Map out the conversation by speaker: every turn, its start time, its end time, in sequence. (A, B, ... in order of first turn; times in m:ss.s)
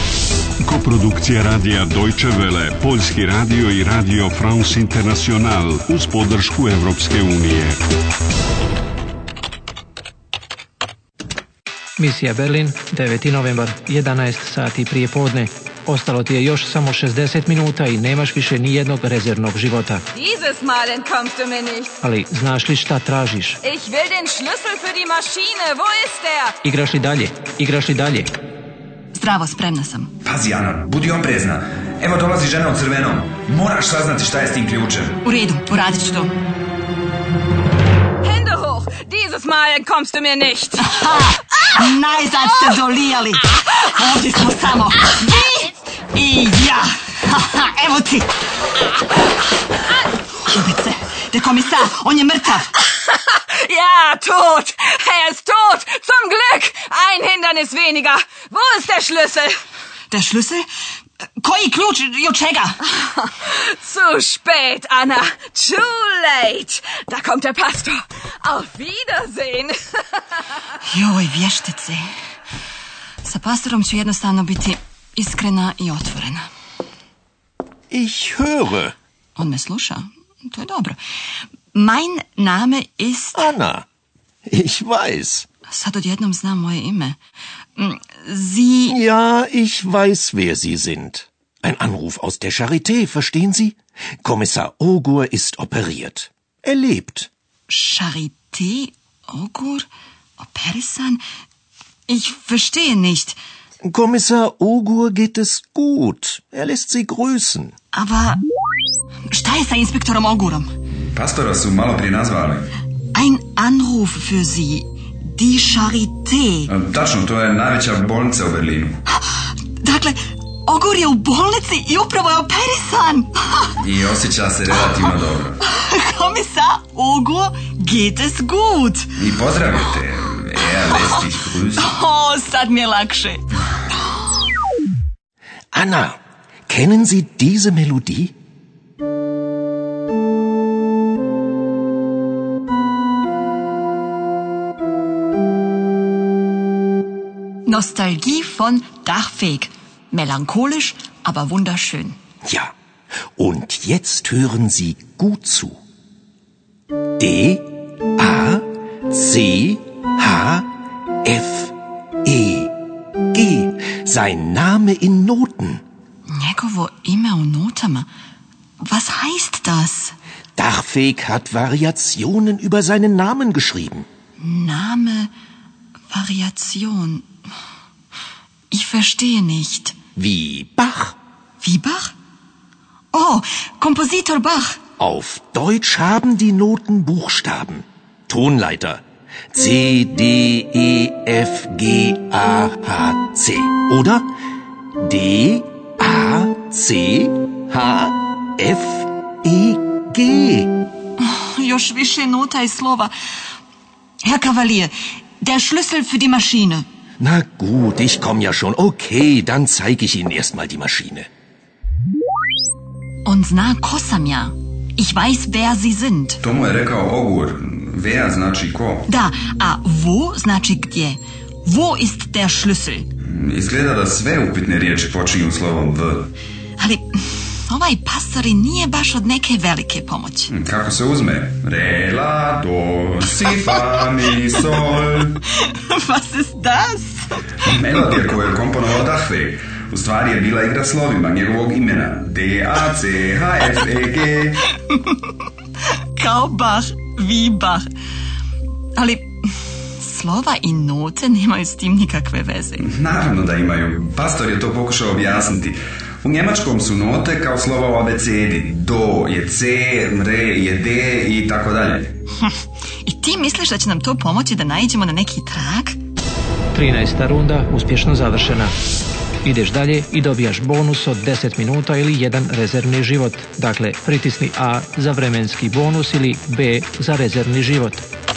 0:00.6-0:07.8 A
0:12.0-0:20.0 B
0:20.2-0:21.9 C
0:22.0-0:23.6 B
0:23.6-0:26.5 C
0:26.6-0:28.3 B
0:29.1-0:30.1 D
0:30.2-0:35.2 E
0:35.2-0:36.4 D
0:38.2-0:40.8 C
0:40.8-0:48.3 D
0:50.4-0:52.7 D
0:53.0-0:59.6 C
1:00.1-1:00.6 D
1:01.4-1:02.8 D
1:03.0-1:10.4 C
1:10.9-1:12.0 D
1:13.2-1:16.4 D
1:17.9-1:19.0 F
1:19.4-1:21.0 D
1:21.7-1:23.5 D
1:23.4-1:23.9 F
1:24.5-1:25.5 F
1:25.7-1:27.2 D
1:27.8-1:29.0 D
1:28.9-1:37.3 F
1:37.7-1:39.9 D
1:40.4-1:41.2 D
1:42.1-1:43.4 D
1:43.8-1:47.7 F
1:47.9-1:48.4 D
1:49.3-1:50.7 D
1:51.1-1:52.7 E
1:53.1-1:56.7 D
1:56.7-1:59.0 E
1:59.8-2:03.7 D
2:03.8-2:05.6 E
2:04.6-2:09.1 D
2:09.2-2:11.9 E
2:10.6-2:13.4 D
2:15.7-2:18.3 F
2:27.7-2:32.2 D
2:32.5-2:32.7 F
2:33.4-2:35.8 F
2:37.2-2:37.7 F
2:38.2-2:40.7 F
2:41.2-2:42.7 F
2:43.3-2:45.8 F
2:46.3-2:48.1 D
2:48.8-2:50.2 D
2:50.6-2:54.1 F
2:54.4-2:55.3 D
2:56.1-2:57.3 D
2:58.7-3:00.0 D
3:00.2-3:01.2 F
3:01.6-3:02.2 D
3:03.1-3:04.8 D
3:05.0-3:14.3 F
3:15.0-3:20.7 F
3:21.2-3:23.1 D
3:24.2-3:26.9 D
3:27.2-3:31.3 F
3:33.3-3:36.4 D
3:36.4-3:39.1 E
3:39.1-3:43.1 D
3:43.2-3:46.3 E
3:46.8-3:47.2 D
3:47.7-3:50.5 D
3:50.5-3:55.4 E
3:55.6-3:57.3 D
3:57.6-4:04.7 E
4:06.2-4:07.9 D
4:09.0-4:09.3 D
4:10.0-4:12.8 D
4:12.8-4:22.1 E
4:23.1-4:26.0 D
4:26.7-4:28.7 B
4:29.4-4:38.0 B